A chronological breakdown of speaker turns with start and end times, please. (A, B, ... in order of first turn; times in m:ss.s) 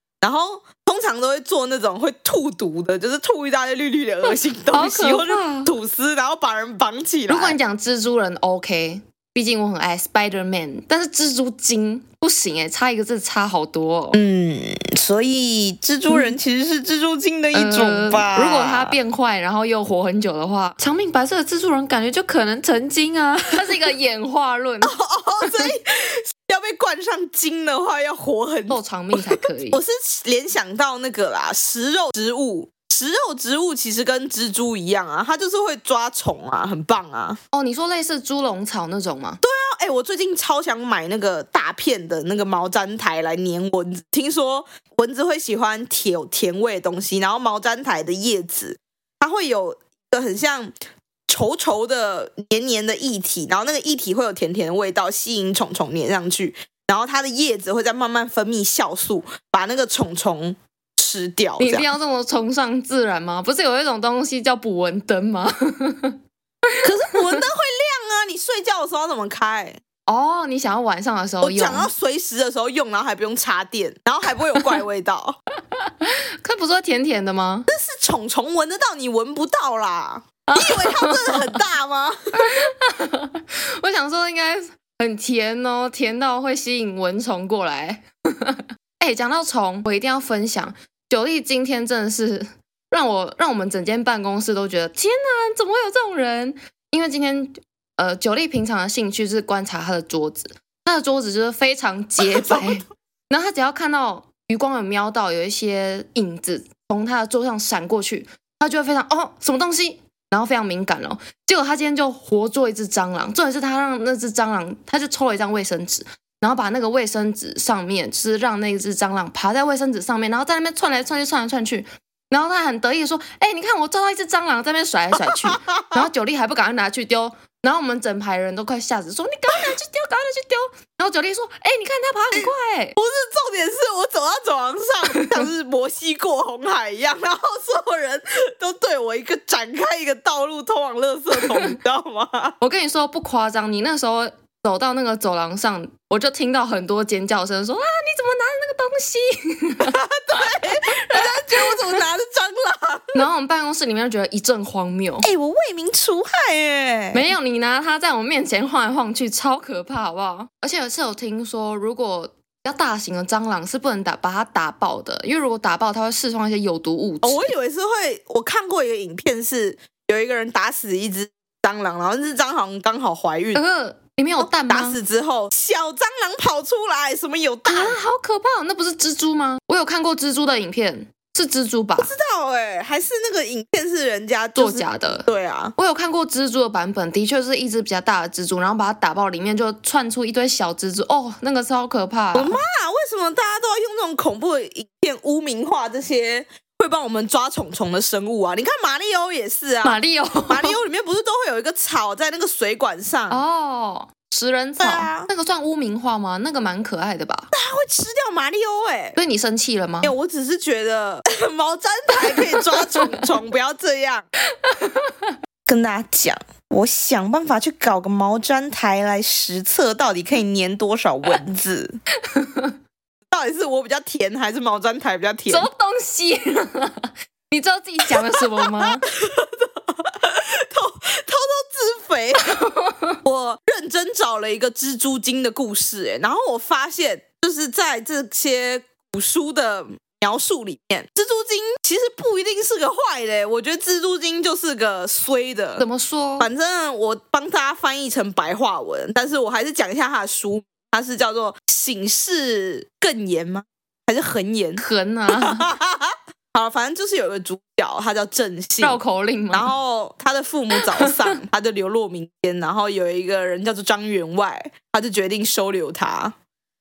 0:00.2-0:07.6 A
0:04.2-0:05.7 B
0:07.3-0:14.2 B
0:14.1-0:18.9 C
0:17.5-0:25.0 B
0:24.8-0:37.4 A
0:28.7-0:29.8 B
0:37.5-0:39.4 B
0:39.4-0:50.7 A
0:51.3-1:01.9 A
1:01.6-1:06.2 B
1:06.8-1:09.8 A
1:10.1-1:11.9 B
1:11.4-1:15.4 A
1:15.8-1:17.7 B
1:17.7-1:22.3 A
1:20.5-1:21.6 B
1:22.3-2:12.9 B
1:42.3-1:42.7 A
2:05.3-2:06.1 A
2:12.3-2:22.6 A
2:21.4-2:21.7 B
2:22.6-2:32.0 B
2:29.8-2:33.2 A
2:33.1-2:35.3 B
2:35.2-2:37.2 C
2:37.1-2:47.5 B
2:47.2-2:53.6 A
2:53.5-2:55.0 B
2:54.4-2:58.0 A
2:57.7-3:02.1 B
3:02.0-3:05.7 A
3:04.6-3:05.2 B
3:05.8-3:12.6 B
3:12.3-3:23.4 A
3:19.8-3:20.8 B
3:23.3-3:27.5 B
3:24.8-3:25.3 A
3:27.5-3:29.2 A
3:29.2-3:30.1 B
3:30.0-3:34.3 A
3:32.4-3:33.2 B
3:34.6-3:35.3 B
3:35.6-3:42.0 C
3:42.3-3:42.7 B
3:43.3-3:45.7 A
3:45.5-3:49.1 B
3:49.1-3:52.6 A
3:52.5-3:53.2 B
3:53.2-4:05.8 A
4:05.8-4:06.5 B
4:06.4-4:19.0 A
4:14.8-4:15.7 B
4:18.8-4:19.7 B
4:19.5-4:26.4 A
4:20.7-4:21.3 B